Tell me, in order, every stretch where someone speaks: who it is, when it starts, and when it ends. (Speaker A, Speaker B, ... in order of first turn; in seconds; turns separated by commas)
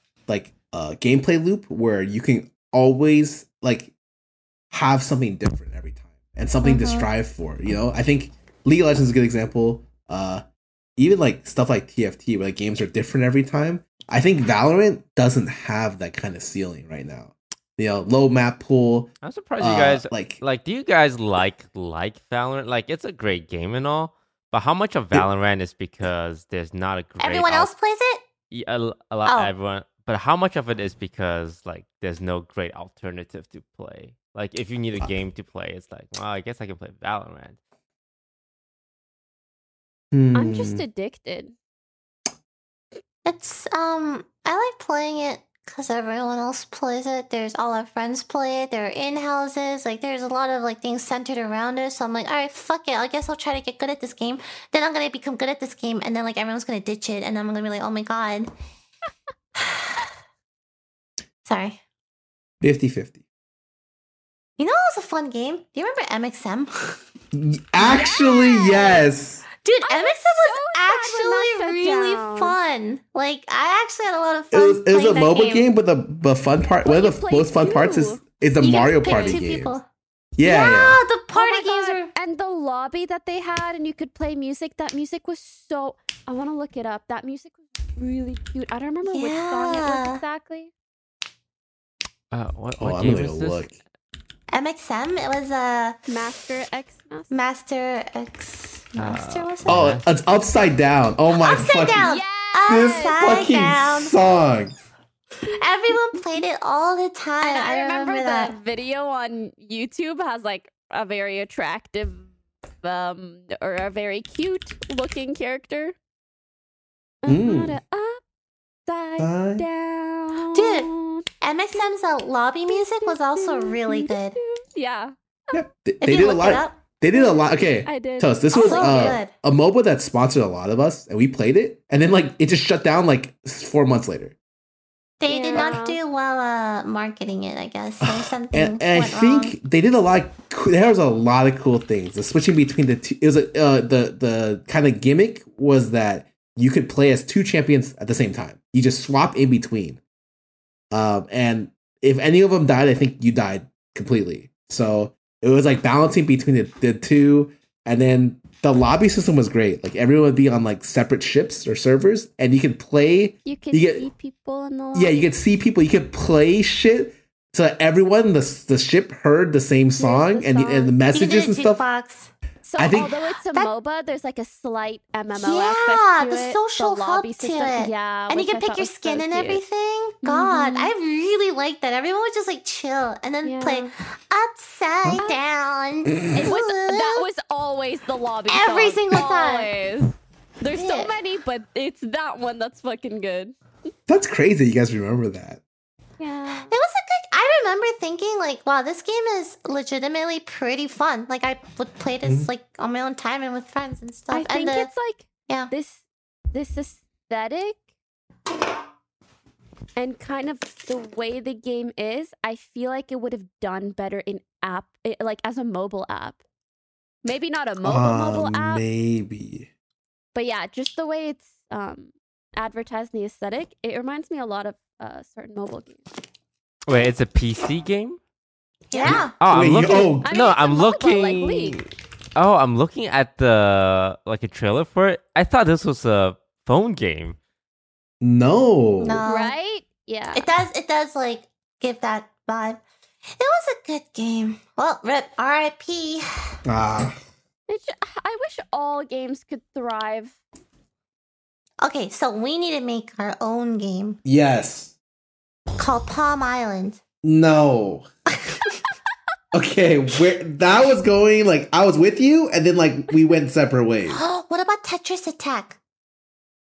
Speaker A: 0.3-3.9, Speaker A: 4.7-10.4, Speaker B: 6.6-7.1, Speaker A: 11.0-20.4, Speaker C: 19.2-27.7, Speaker B: 27.2-28.2, Speaker C: 28.5-37.6, Speaker B: 29.3-29.5, Speaker A: 40.1-40.8, Speaker D: 40.4-41.5, Speaker B: 43.2-58.5, Speaker B: 59.6-60.1, Speaker B: 61.5-61.8, Speaker A: 62.6-63.2, Speaker B: 64.6-67.0, Speaker A: 67.3-69.5, Speaker D: 67.8-69.0, Speaker B: 68.7-69.0, Speaker B: 69.6-75.7, Speaker D: 69.8-72.5, Speaker A: 74.5-79.8, Speaker D: 76.8-79.4, Speaker B: 78.6-79.9, Speaker A: 80.4-81.0, Speaker B: 80.4-82.1, Speaker D: 81.3-90.7, Speaker B: 89.0-90.2, Speaker C: 92.3-93.7, Speaker A: 92.8-93.8, Speaker B: 94.5-96.0, Speaker D: 96.1-97.3, Speaker B: 97.3-99.9, Speaker C: 99.0-100.1, Speaker A: 99.7-102.1, Speaker B: 101.4-104.1, Speaker D: 102.0-103.5, Speaker A: 102.7-104.8, Speaker B: 105.5-108.5, Speaker D: 107.4-112.3, Speaker D: 112.8-116.0, Speaker D: 117.2-118.2, Speaker A: 117.3-117.8, Speaker D: 118.9-121.8, Speaker A: 119.2-119.7, Speaker B: 120.5-120.9, Speaker B: 121.4-124.4, Speaker D: 122.7-125.6, Speaker A: 125.5-134.3, Speaker B: 126.0-126.8, Speaker D: 127.1-129.2, Speaker B: 128.5-129.3, Speaker B: 135.2-139.6, Speaker D: 135.3-136.0, Speaker A: 138.0-150.0, Speaker A: 150.9-164.1, Speaker D: 163.4-165.2, Speaker A: 164.9-171.8, Speaker D: 170.0-171.0, Speaker B: 171.1-172.3, Speaker D: 172.6-179.6, Speaker A: 172.8-173.1, Speaker B: 175.3-187.3, Speaker D: 180.2-180.9, Speaker D: 183.4-183.9, Speaker A: 186.2-186.5, Speaker D: 186.4-193.6, Speaker B: 188.5-189.7, Speaker B: 190.7-191.2, Speaker A: 194.1-195.6, Speaker D: 196.2-196.7, Speaker B: 196.7-204.9, Speaker A: 202.2-202.5, Speaker D: 204.3-206.0, Speaker D: 206.5-207.8, Speaker D: 210.0-216.4, Speaker D: 217.2-218.8, Speaker A: 217.8-219.7, Speaker D: 220.3-226.0, Speaker C: 226.9-228.2, Speaker B: 228.9-229.3, Speaker D: 228.9-229.2, Speaker A: 229.0-230.3, Speaker C: 229.3-237.4, Speaker D: 230.2-231.8, Speaker A: 238.2-239.2, Speaker B: 239.0-239.5, Speaker D: 239.2-240.5, Speaker B: 240.3-242.8, Speaker B: 243.4-246.5, Speaker A: 246.7-247.2, Speaker D: 247.7-250.4, Speaker B: 251.8-254.2, Speaker A: 254.2-254.9, Speaker B: 255.8-257.0, Speaker A: 257.2-258.1, Speaker B: 258.4-258.8, Speaker A: 259.5-264.2, Speaker B: 264.1-265.8